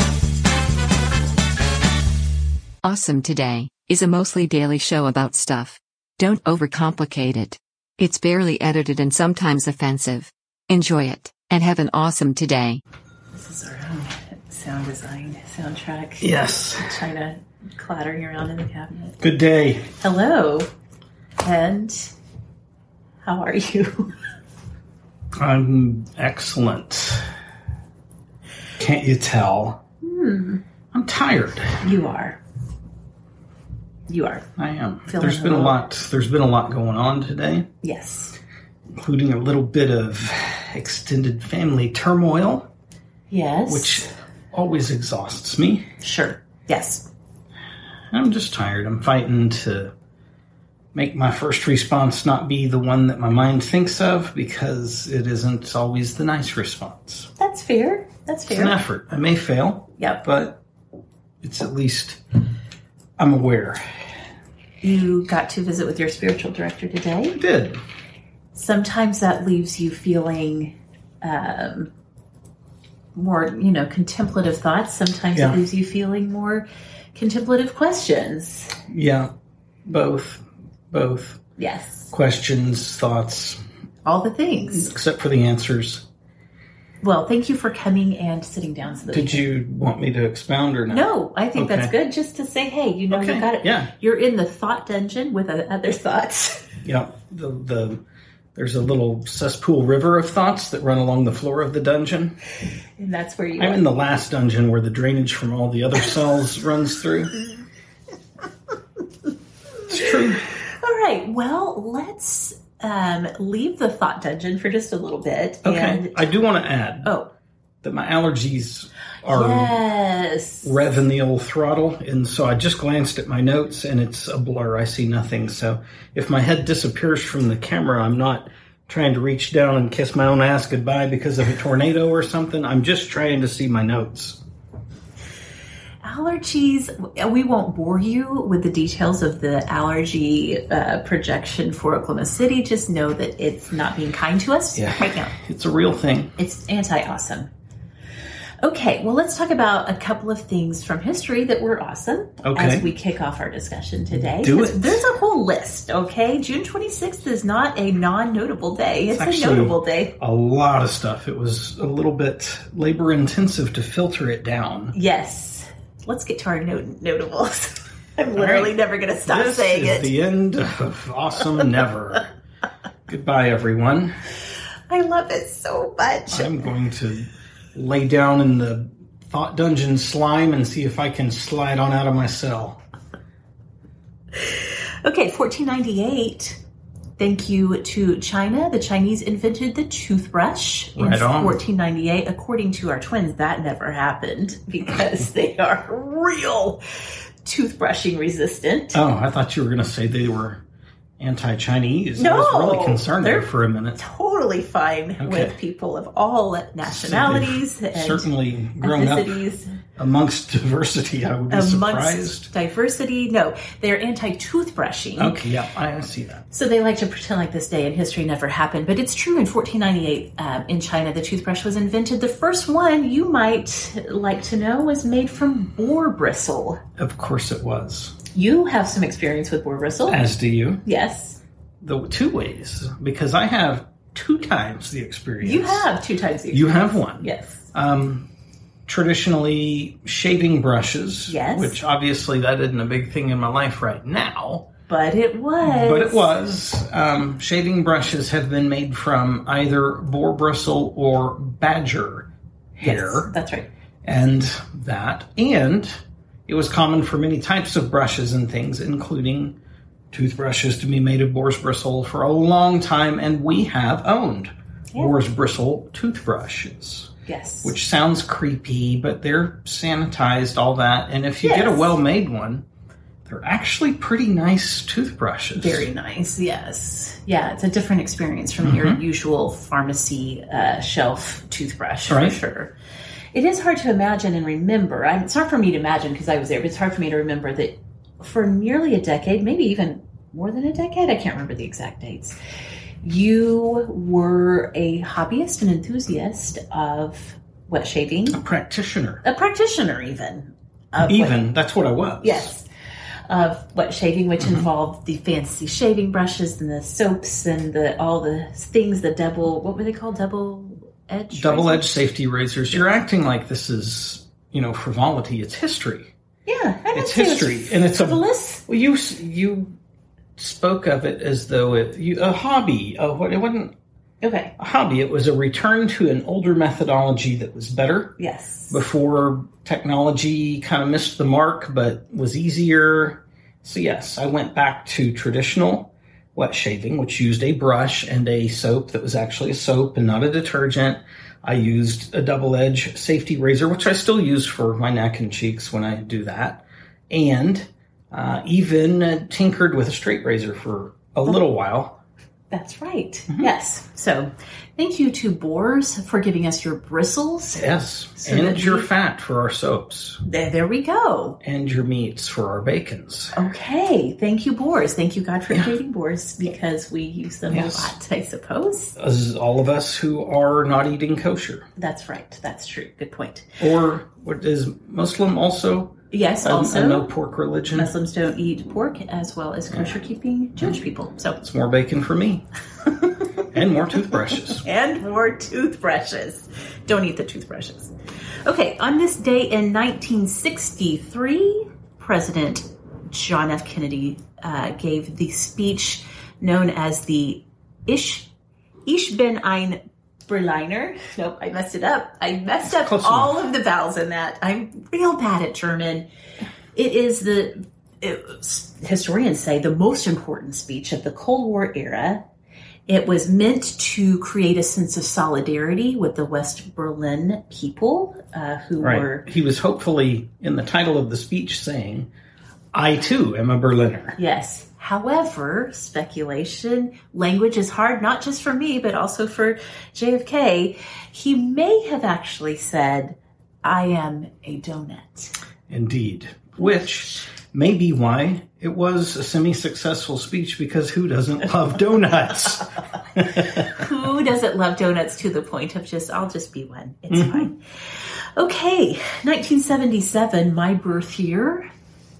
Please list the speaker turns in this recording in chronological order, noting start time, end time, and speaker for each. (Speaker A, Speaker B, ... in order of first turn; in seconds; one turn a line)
Speaker A: 2.8-12.8
Speaker B: 13.3-19.2
Speaker C: 16.2-17.0
Speaker C: 19.2-19.9
Speaker B: 20.0-20.7
Speaker B: 21.4-22.1
Speaker B: 23.2-24.1
Speaker C: 25.4-27.3
Speaker C: 28.8-29.8
Speaker B: 30.0-30.6
Speaker C: 30.9-31.8
Speaker B: 31.8-32.4
Speaker B: 34.1-34.5
Speaker C: 34.6-37.7
Speaker B: 35.1-35.8
Speaker B: 37.8-38.4
Speaker C: 38.9-42.7
Speaker B: 43.3-44.1
Speaker C: 43.7-45.9
Speaker B: 46.0-47.1
Speaker C: 48.1-49.9
Speaker C: 50.9-57.3
Speaker B: 57.4-58.8
Speaker C: 58.5-60.6
Speaker B: 60.0-60.2
Speaker C: 61.4-62.2
Speaker C: 63.2-63.8
Speaker B: 64.8-67.4
Speaker C: 67.3-67.8
Speaker B: 68.5-71.9
Speaker B: 73.1-78.7
Speaker C: 78.9-79.3
Speaker C: 79.8-81.4
Speaker B: 81.6-82.1
Speaker C: 82.1-83.6
Speaker B: 84.0-84.9
Speaker C: 84.7-86.0
Speaker B: 87.0-89.4
Speaker C: 89.1-91.9
Speaker B: 90.9-96.6
Speaker C: 93.1-93.9
Speaker C: 96.8-98.0
Speaker C: 98.5-102.4
Speaker B: 103.0-103.8
Speaker C: 103.6-107.3
Speaker C: 109.9-110.4
Speaker B: 109.9-116.2
Speaker C: 115.6-117.1
Speaker B: 117.0-117.3
Speaker C: 117.8-119.8
Speaker B: 119.3-120.7
Speaker C: 120.6-134.4
Speaker B: 136.0-145.3
Speaker C: 144.7-146.3
Speaker B: 146.4-147.5
Speaker B: 148.6-160.2
Speaker C: 152.4-152.9
Speaker C: 154.2-155.0
Speaker C: 159.1-164.9
Speaker B: 164.9-170.1
Speaker C: 168.3-168.7
Speaker C: 169.2-172.3
Speaker C: 173.1-174.1
Speaker B: 174.9-176.7
Speaker C: 176.3-182.8
Speaker B: 184.3-186.6
Speaker B: 187.2-196.8
Speaker C: 190.9-191.6
Speaker B: 197.4-199.0
Speaker C: 198.9-200.6
Speaker C: 201.2-204.0
Speaker B: 202.2-208.3
Speaker C: 205.2-205.5
Speaker C: 206.9-209.4
Speaker B: 208.8-209.7
Speaker C: 210.0-212.5
Speaker B: 211.5-215.4
Speaker C: 215.2-216.4
Speaker B: 216.5-226.8
Speaker C: 227.0-228.2
Speaker B: 228.3-230.2
Speaker C: 230.1-230.8
Speaker B: 230.8-231.4
Speaker C: 231.8-235.9
Speaker B: 235.4-237.6
Speaker C: 236.5-238.3
Speaker C: 238.9-244.7
Speaker B: 241.3-241.8
Speaker B: 244.9-246.3
Speaker C: 245.6-253.3
Speaker B: 252.8-253.7
Speaker C: 254.0-259.6
Speaker C: 260.1-267.1
Speaker B: 267.2-267.7
Speaker C: 267.6-272.6
Speaker B: 271.4-271.9
Speaker C: 273.2-275.9
Speaker B: 275.5-282.7
Speaker C: 278.6-279.0
Speaker C: 282.1-282.4
Speaker B: 283.3-292.4
Speaker B: 293.0-298.4
Speaker C: 298.3-299.2
Speaker B: 299.2-301.4
Speaker C: 301.1-302.5
Speaker B: 302.2-302.6
Speaker B: 303.3-311.9
Speaker C: 304.4-304.7
Speaker C: 311.3-316.1
Speaker B: 316.4-318.6
Speaker C: 316.9-319.7
Speaker C: 320.4-323.7
Speaker B: 324.2-324.5
Speaker C: 324.6-328.2
Speaker B: 328.2-328.8
Speaker C: 328.7-352.0
Speaker B: 352.5-357.6
Speaker C: 357.6-360.2
Speaker B: 358.2-358.9
Speaker B: 360.2-361.4
Speaker C: 361.4-363.4
Speaker B: 363.3-368.9
Speaker C: 367.5-367.9
Speaker C: 368.9-371.6
Speaker B: 371.8-373.6
Speaker C: 373.6-377.9
Speaker B: 376.1-377.1
Speaker B: 377.7-381.4
Speaker C: 379.7-379.9
Speaker C: 381.4-382.4
Speaker C: 383.5-384.6
Speaker B: 384.4-387.9
Speaker B: 388.4-398.3
Speaker B: 398.9-406.1
Speaker C: 402.6-403.4
Speaker B: 406.7-412.2
Speaker B: 412.9-419.2
Speaker C: 418.8-422.1
Speaker C: 422.7-424.1
Speaker B: 424.2-435.3
Speaker C: 435.7-443.8
Speaker B: 436.6-437.2
Speaker B: 443.4-451.7
Speaker C: 447.1-447.5